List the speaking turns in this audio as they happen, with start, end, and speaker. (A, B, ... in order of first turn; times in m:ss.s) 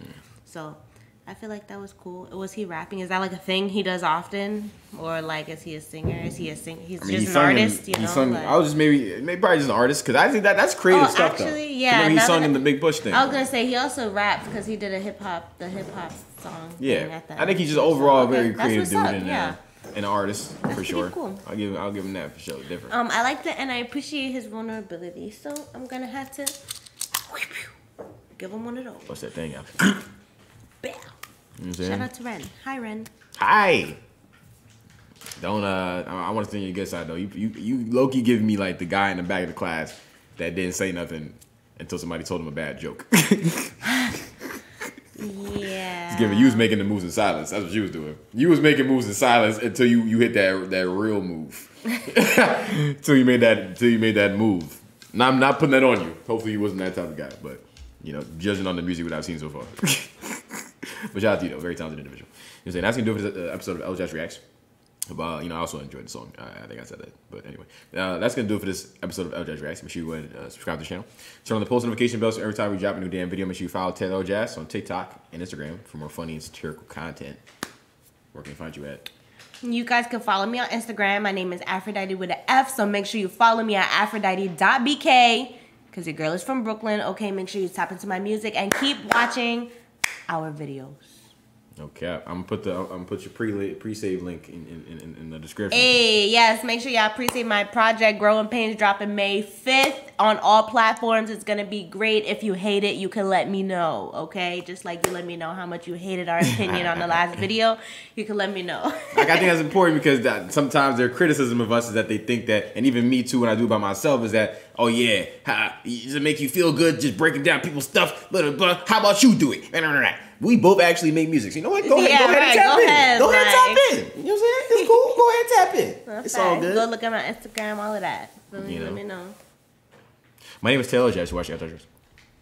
0:00.4-0:08.6 A
0:07.0-0:13.3 B
0:10.9-0:19.6 A
0:16.8-0:22.9 B
0:20.7-0:21.4 A
0:22.9-0:26.6 A
0:27.3-0:27.7 A
0:28.4-0:29.1 A
0:29.1-0:30.0 B
0:30.8-0:31.1 A
0:31.6-0:32.1 B
0:31.8-0:33.1 A
0:33.4-0:34.0 B
0:35.4-0:44.2 B
0:45.2-0:46.7 A
0:46.1-1:04.4 B
1:05.1-1:17.4 B
1:18.3-1:19.1 B
1:19.6-1:29.7 A
1:30.3-1:31.2 A
1:31.8-1:35.9 B
1:35.7-1:49.5 A
1:46.5-1:47.4 B
1:49.1-2:06.8 B
2:01.8-2:03.9 A
2:06.0-2:09.4 A
2:08.6-2:09.0 B
2:10.6-2:11.8 B